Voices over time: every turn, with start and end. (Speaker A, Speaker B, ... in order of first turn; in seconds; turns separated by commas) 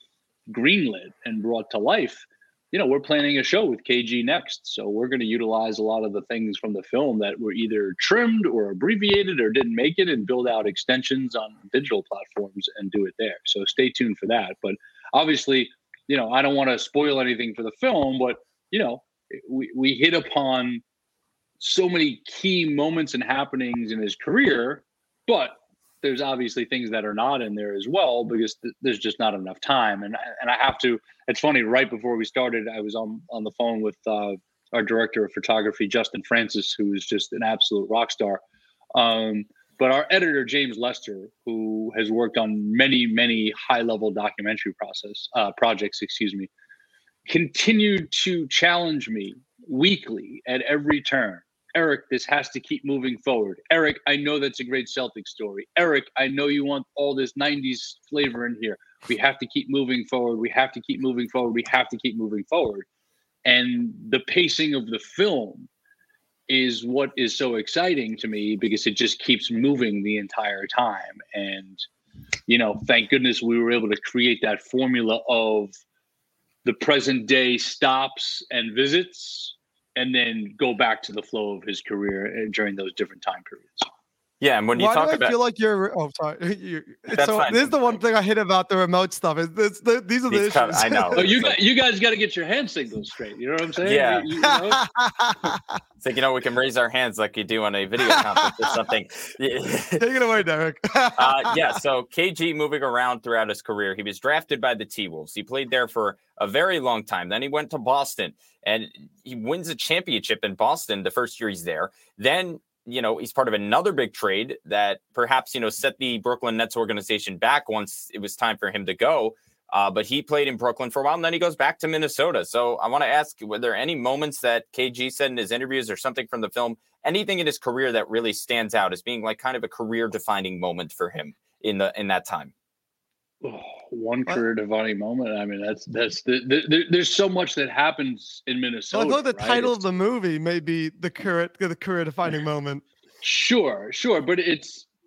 Speaker A: 0.5-20.8, Speaker A: 21.6-38.4, Speaker A: 38.9-46.5, Speaker A: 47.3-62.9, Speaker A: 63.4-65.7, Speaker A: 66.5-71.8, Speaker A: 72.5-75.7, Speaker A: 76.6-83.9, Speaker B: 84.4-85.3, Speaker C: 84.7-91.3, Speaker B: 87.1-87.7, Speaker B: 90.3-91.6, Speaker A: 91.2-94.8, Speaker B: 93.8-94.3, Speaker C: 94.6-95.6, Speaker B: 96.0-100.0, Speaker C: 98.1-98.7, Speaker C: 100.0-101.7, Speaker B: 101.1-132.5, Speaker A: 133.4-139.8, Speaker C: 138.9-142.8, Speaker A: 143.2-144.8